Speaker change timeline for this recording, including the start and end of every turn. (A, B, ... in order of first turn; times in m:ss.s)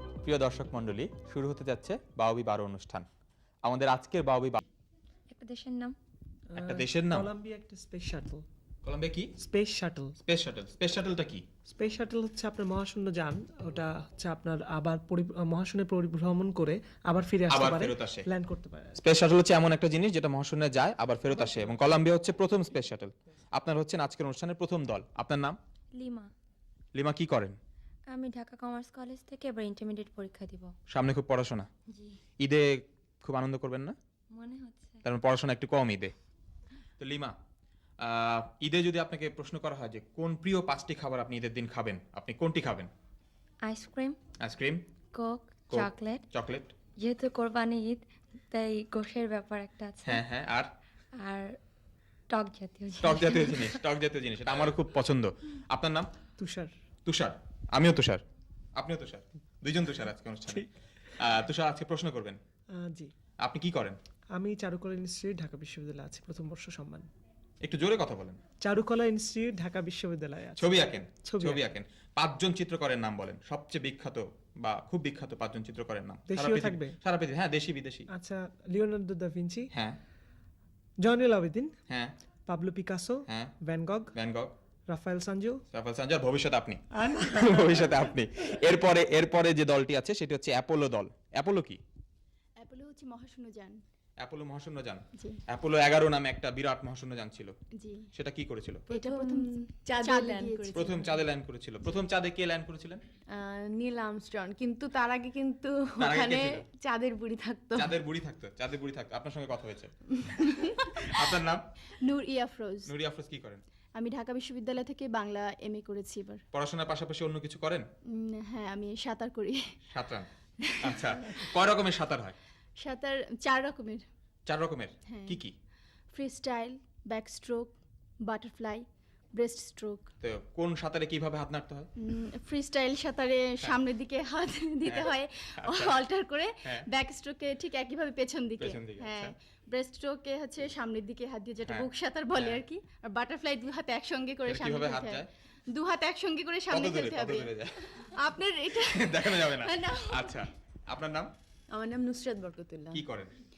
0:00.2-0:03.1 A
0:03.6-0:04.6 A
0:05.3-0:05.9 B
0:06.5-0:08.4 C
0:06.6-0:07.3 A
0:08.8-0:09.3 A
0:09.4-0:10.2 C
0:10.2-0:11.4 A
0:11.7-0:19.0 C
0:17.5-0:18.2 A
0:19.0-0:25.6 A
0:21.3-0:21.7 C
0:25.9-0:26.3 B
0:26.9-0:27.6 A
0:28.1-0:30.7 B
0:30.9-0:31.7 A
0:31.9-0:32.2 B
0:32.4-0:33.9 A
0:34.3-0:35.0 B
0:35.0-0:36.1 A
0:37.0-0:37.3 A
0:38.0-0:42.9 A
0:43.6-0:44.2 B
0:44.4-0:44.8 A
0:45.1-0:46.2 B
0:45.7-0:46.7 A
0:47.0-0:50.2 B
0:50.0-0:50.7 A
0:51.2-0:51.6 B
0:52.3-0:53.8 B
0:53.0-0:56.1 A
0:56.4-0:56.7 C
0:57.0-0:58.2 A
0:58.8-1:02.4 A
1:02.8-1:03.1 C
1:03.4-1:04.0 A
1:04.4-1:07.1 C
1:07.6-1:08.4 A
1:08.6-1:10.7 C
1:10.6-1:18.1 A
1:11.2-1:11.6 C
1:16.3-1:17.0 C
1:18.1-1:19.7 C
1:21.0-1:21.7 C
1:22.5-1:24.1 C
1:23.3-1:23.5 A
1:24.1-1:24.5 A
1:24.9-1:25.6 C
1:25.7-1:31.8 A
1:27.0-1:28.0 C
1:32.6-1:33.8 D
1:34.2-1:37.5 A
1:35.2-1:35.4 D
1:37.8-1:38.1 D
1:38.1-1:38.9 A
1:38.9-1:39.5 D
1:38.9-1:40.9 E
1:40.0-1:41.1 D
1:40.7-1:43.0 A
1:43.3-1:48.0 E
1:46.0-1:46.6 A
1:47.8-1:49.9 A
1:50.4-1:50.8 D
1:51.0-1:51.6 A
1:52.0-1:52.9 D
1:52.9-1:53.6 A
1:54.0-1:56.4 D
1:56.5-1:57.8 A
1:58.1-1:59.6 D
1:59.9-2:00.3 A
2:00.6-2:01.5 D
2:00.8-2:02.4 A
2:02.8-2:04.0 D
2:04.5-2:05.5 A
2:05.1-2:05.4 D
2:06.1-2:07.7 D
2:08.2-2:10.1 D
2:10.2-2:11.9 A
2:12.0-2:30.5 D
2:14.8-2:16.0 A
2:18.6-2:19.3 A
2:21.6-2:22.6 A
2:24.4-2:25.3 A
2:26.7-2:28.1 A
2:28.7-2:31.3 A
2:31.7-2:33.0 E
2:32.9-2:33.3 A